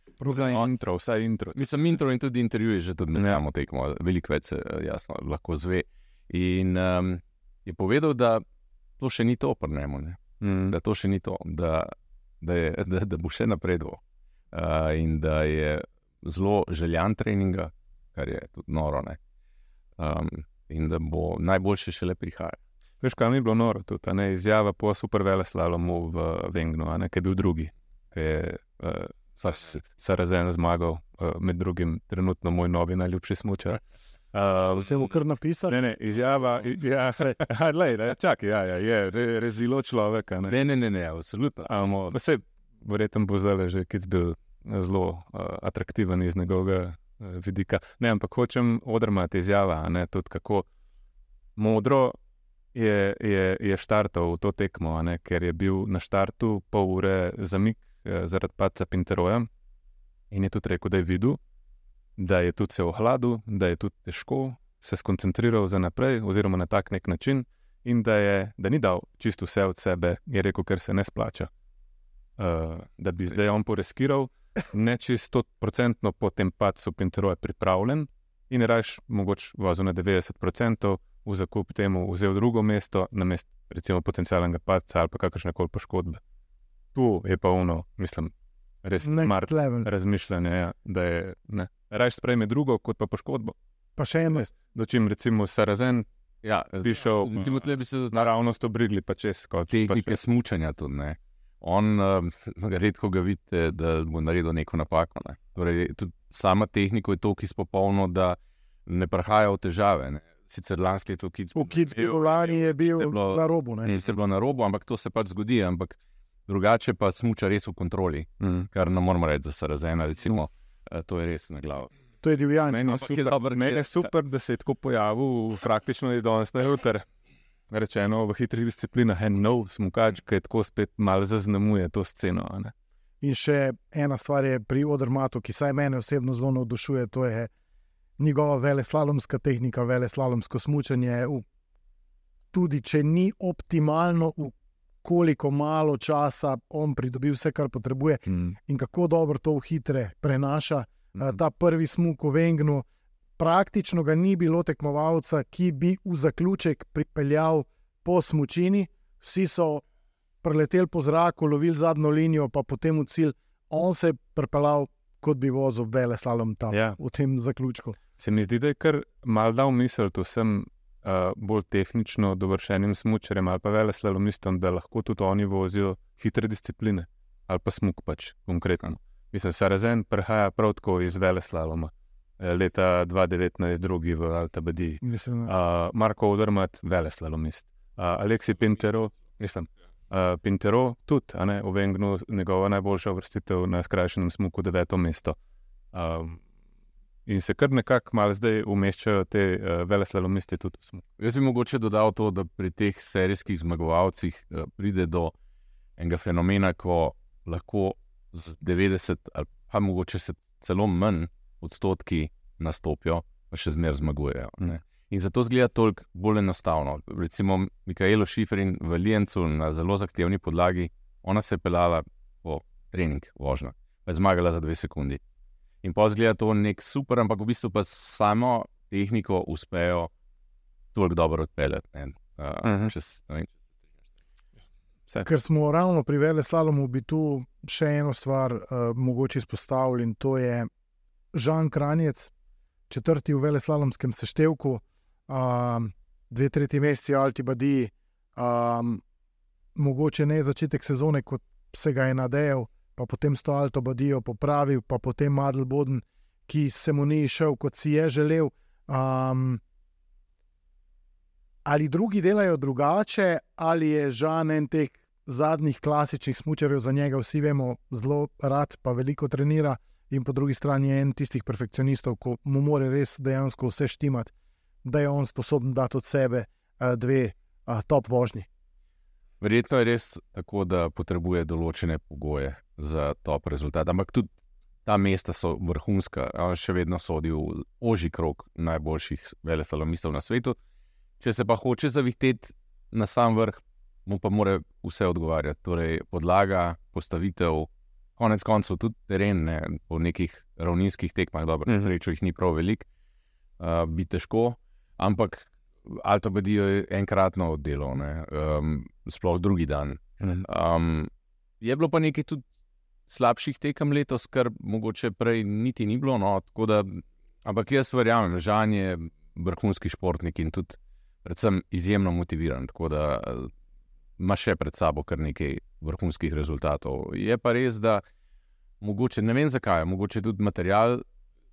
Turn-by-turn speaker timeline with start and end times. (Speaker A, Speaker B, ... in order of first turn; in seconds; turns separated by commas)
Speaker A: 0.2-0.5, Speaker B: 0.3-1.7, Speaker C: 0.3-0.7, Speaker C: 1.5-8.4, Speaker C: 9.0-14.0, Speaker B: 10.4-10.8, Speaker C: 14.5-19.2, Speaker C: 20.0-22.6, Speaker B: 23.0-33.8, Speaker C: 29.4-29.7, Speaker B: 34.3-35.0, Speaker A: 34.7-35.8, Speaker B: 35.7-40.5, Speaker C: 40.5-41.8, Speaker B: 41.7-50.6, Speaker B: 51.6-52.2, Speaker B: 52.7-59.5, Speaker B: 60.3-61.4, Speaker B: 62.2-71.5, Speaker B: 72.4-86.2, Speaker B: 86.9-88.3, Speaker B: 88.8-93.5, Speaker A: 89.0-89.9, Speaker A: 94.0-94.5, Speaker B: 94.3-96.0, Speaker C: 96.4-98.3, Speaker B: 96.8-100.2, Speaker C: 99.7-121.9, Speaker A: 111.5-113.9, Speaker B: 118.4-118.7, Speaker A: 122.2-122.9, Speaker B: 122.7-127.0, Speaker C: 122.9-124.1, Speaker B: 127.7-132.7, Speaker A: 133.2-137.5, Speaker A: 138.2-141.4, Speaker A: 142.5-152.8, Speaker B: 148.2-148.6, Speaker A: 153.4-159.8, Speaker A: 160.4-168.0, Speaker B: 166.7-167.0, Speaker B: 168.2-195.3, Speaker A: 185.0-185.5, Speaker B: 195.9-196.4, Speaker B: 197.3-201.0, Speaker C: 201.2-205.3, Speaker C: 206.0-225.2, Speaker C: 225.8-230.1, Speaker C: 230.9-233.5, Speaker B: 232.6-232.9, Speaker A: 235.2-240.7, Speaker A: 241.3-242.3, Speaker A: 242.9-249.0, Speaker A: 249.8-259.6, Speaker A: 261.6-274.3, Speaker A: 274.8-278.5, Speaker C: 279.4-284.3, Speaker C: 284.9-290.6, Speaker C: 291.2-302.9, Speaker C: 303.6-312.4, Speaker C: 313.1-323.5, Speaker C: 324.2-328.0, Speaker C: 328.8-331.0